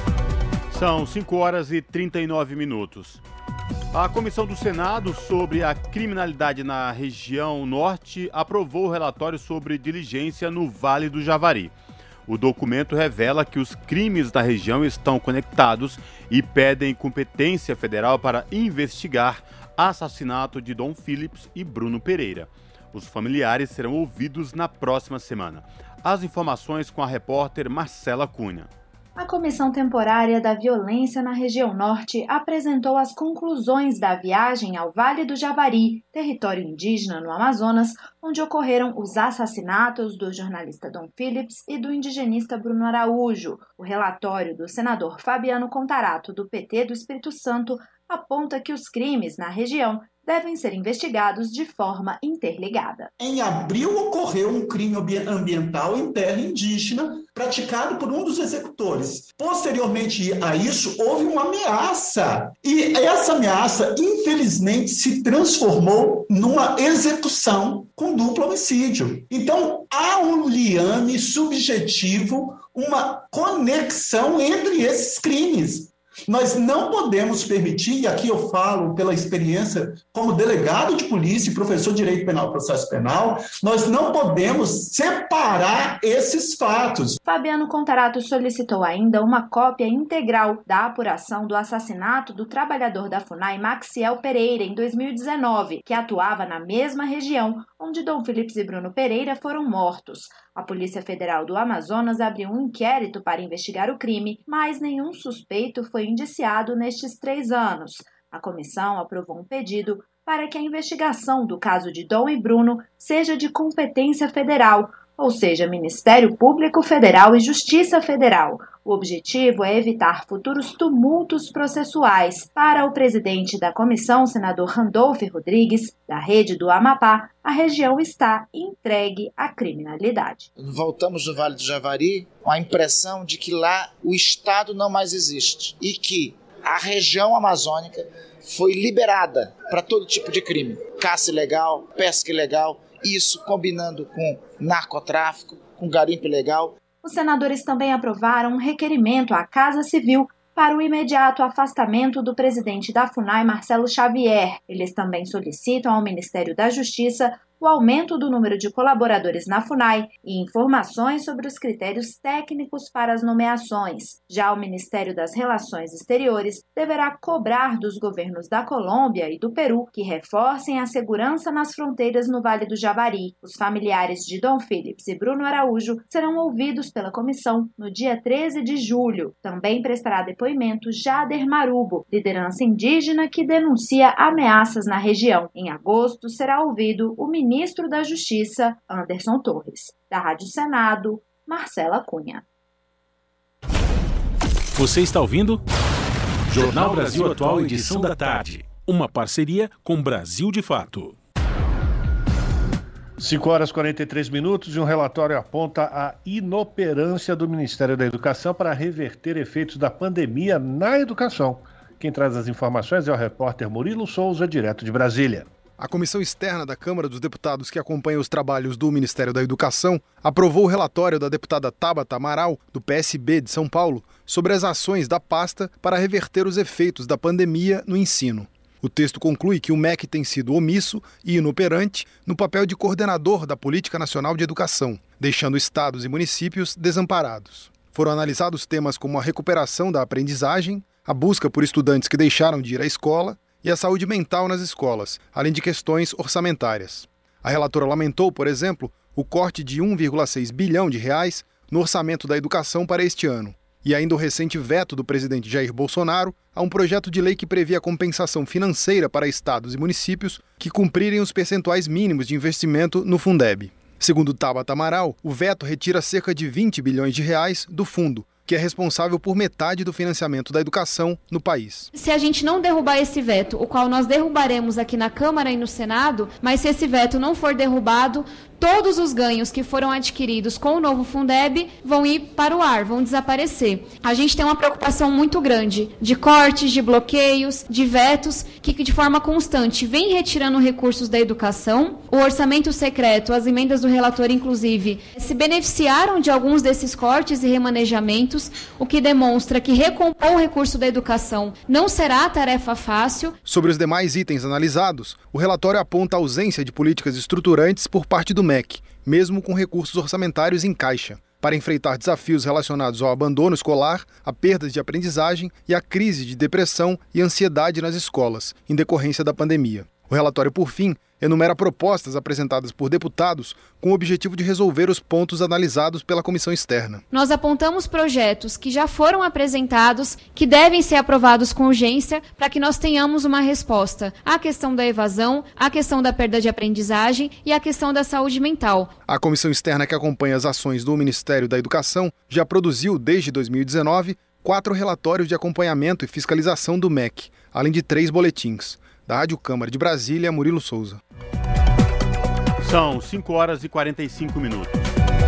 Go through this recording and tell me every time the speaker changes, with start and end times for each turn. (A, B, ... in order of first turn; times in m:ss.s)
0:00.7-0:03.2 A
0:03.9-0:11.7 A
0:12.3-0:28.7 A
0:29.2-0:53.1 B
0:53.2-1:27.2 C
1:27.2-2:10.5 B
2:10.6-2:26.8 D
2:27.0-3:12.4 B
3:14.8-3:15.6 E
3:16.5-3:21.2 E
3:23.2-3:35.5 F
3:35.8-4:31.9 G
4:31.9-5:03.3 H
5:03.4-5:27.0 G
5:27.1-5:38.9 H
5:39.1-5:51.0 G
5:52.6-5:54.9 A